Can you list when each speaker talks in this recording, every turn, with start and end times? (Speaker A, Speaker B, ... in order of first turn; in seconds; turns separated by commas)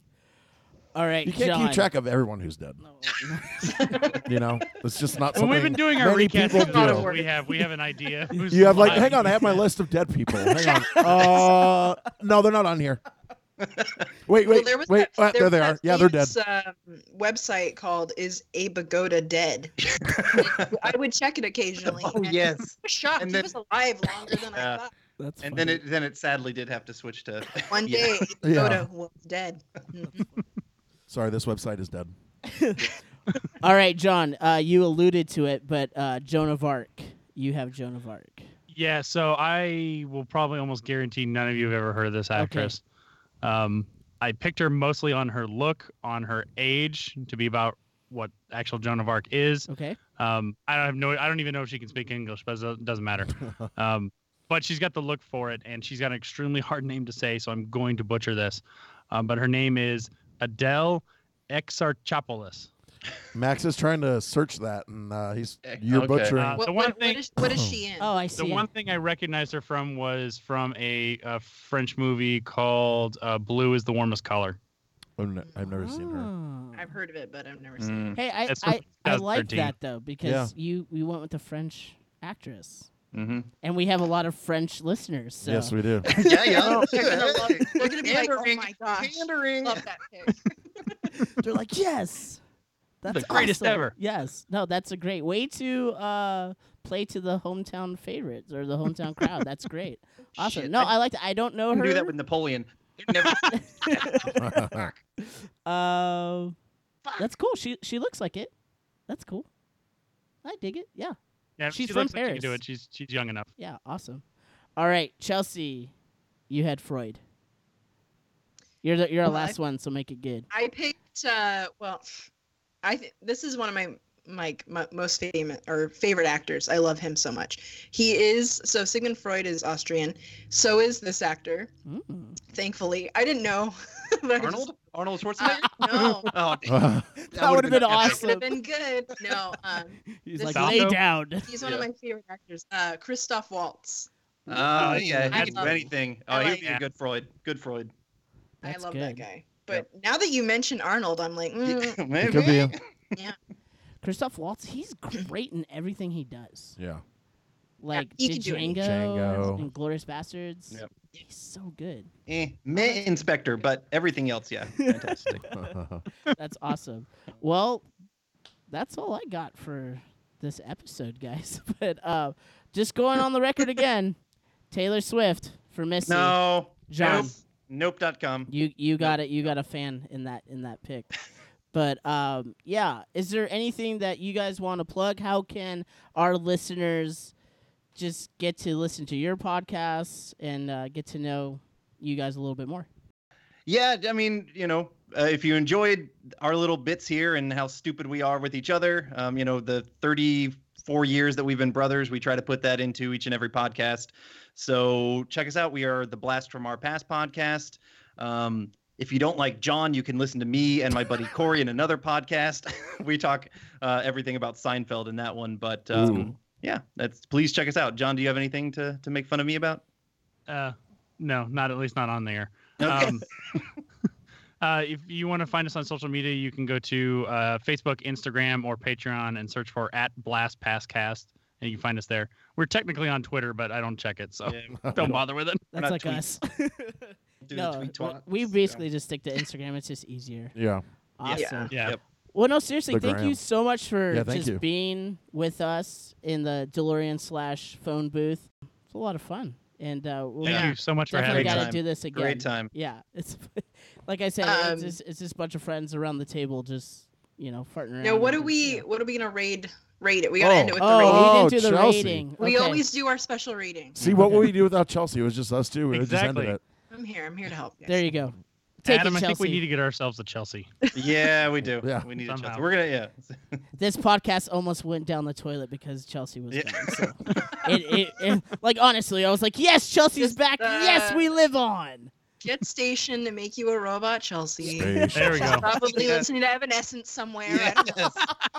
Speaker A: 0.9-1.9, Speaker B: 1.2-2.8, Speaker A: 2.8-4.1, Speaker C: 3.7-4.2, Speaker B: 4.2-7.1, Speaker D: 5.3-9.4, Speaker C: 6.5-7.3, Speaker B: 8.5-13.0, Speaker A: 8.6-9.6, Speaker A: 10.3-11.6, Speaker C: 10.8-11.3, Speaker E: 13.6-14.0, Speaker B: 14.3-16.4, Speaker C: 14.4-19.7, Speaker E: 19.8-20.9, Speaker C: 20.3-24.9, Speaker E: 21.9-23.6, Speaker E: 24.3-24.8, Speaker A: 25.2-25.8, Speaker E: 25.4-28.3, Speaker C: 27.7-30.1, Speaker B: 28.4-28.9, Speaker B: 31.1-32.1, Speaker A: 32.5-32.8, Speaker A: 33.6-38.5, Speaker D: 38.7-42.8, Speaker A: 42.3-42.7, Speaker D: 43.4-62.7, Speaker A: 49.7-50.0, Speaker B: 63.3-66.6, Speaker E: 65.6-66.4, Speaker D: 66.4-67.2, Speaker C: 66.6-68.1, Speaker B: 67.5-67.8, Speaker A: 68.0-68.7, Speaker D: 68.4-74.6, Speaker B: 75.2-76.3, Speaker A: 75.8-77.0, Speaker C: 76.7-78.0, Speaker E: 77.8-78.2, Speaker A: 78.1-82.9, Speaker D: 78.5-79.7, Speaker B: 80.2-80.5, Speaker E: 83.1-83.5, Speaker A: 83.6-87.0, Speaker B: 85.4-86.1, Speaker E: 86.1-89.8, Speaker C: 86.3-90.4, Speaker A: 91.4-92.4, Speaker A: 93.0-102.1, Speaker E: 93.1-93.9, Speaker D: 93.1-93.9, Speaker E: 100.4-100.9, Speaker E: 101.7-105.0, Speaker A: 103.2-106.5, Speaker B: 104.4-104.9, Speaker A: 107.2-108.5, Speaker A: 109.1-109.5, Speaker A: 110.4-111.2, Speaker D: 111.6-113.5, Speaker A: 111.7-112.6, Speaker A: 113.6-114.2, Speaker A: 114.8-115.9, Speaker A: 116.5-117.2, Speaker A: 118.8-120.5, Speaker C: 119.2-119.5, Speaker C: 120.5-122.0, Speaker C: 122.8-131.7, Speaker A: 131.9-132.4, Speaker C: 132.5-134.8, Speaker E: 134.4-138.2, Speaker C: 135.4-136.3, Speaker A: 135.9-136.3, Speaker B: 136.7-137.1, Speaker A: 137.2-138.5, Speaker C: 137.8-146.6, Speaker A: 140.2-141.5, Speaker D: 140.5-141.0, Speaker E: 141.6-141.9, Speaker E: 144.5-147.9, Speaker A: 144.8-145.3, Speaker D: 144.8-145.8, Speaker D: 146.5-146.8, Speaker A: 148.6-149.2, Speaker C: 148.6-152.4, Speaker E: 151.6-152.8, Speaker B: 152.2-152.7, Speaker A: 154.0-156.8, Speaker B: 156.8-157.0, Speaker A: 157.8-162.1, Speaker C: 157.9-158.8, Speaker B: 158.8-159.7, Speaker E: 162.3-165.4, Speaker A: 164.8-165.7, Speaker B: 165.5-166.0, Speaker A: 166.4-167.8, Speaker A: 168.7-174.2, Speaker A: 174.7-177.3, Speaker E: 176.1-179.6, Speaker A: 178.5-181.1, Speaker A: 181.7-187.3, Speaker A: 187.9-192.9, Speaker E: 193.7-219.8, Speaker B: 215.9-216.3, Speaker D: 220.5-223.2, Speaker E: 222.8-223.7, Speaker D: 224.6-235.6, Speaker E: 234.4-235.2, Speaker B: 234.8-235.2, Speaker A: 235.7-240.5, Speaker E: 235.7-236.2, Speaker E: 237.4-238.8, Speaker B: 240.6-240.8, Speaker A: 241.2-241.7, Speaker E: 241.3-242.0, Speaker C: 241.3-241.7, Speaker D: 241.7-242.0, Speaker A: 242.3-258.8, Speaker B: 242.9-243.4, Speaker B: 244.1-244.6, Speaker E: 250.4-250.7, Speaker D: 250.4-251.7, Speaker E: 251.3-252.7, Speaker C: 254.4-255.0, Speaker C: 258.0-261.5, Speaker B: 260.4-262.3, Speaker A: 260.8-262.8, Speaker C: 262.4-264.0, Speaker E: 264.0-264.5, Speaker B: 264.0-266.6, Speaker D: 265.9-266.6, Speaker C: 266.9-268.1, Speaker A: 267.9-269.6, Speaker D: 268.9-270.7, Speaker E: 270.9-273.6, Speaker B: 271.8-272.1, Speaker D: 272.2-272.7, Speaker A: 273.8-282.1, Speaker E: 276.5-277.7, Speaker C: 280.2-281.3, Speaker C: 282.4-288.3, Speaker B: 284.6-285.6, Speaker A: 284.8-285.5, Speaker D: 285.1-285.7, Speaker E: 285.7-286.3, Speaker E: 287.5-288.2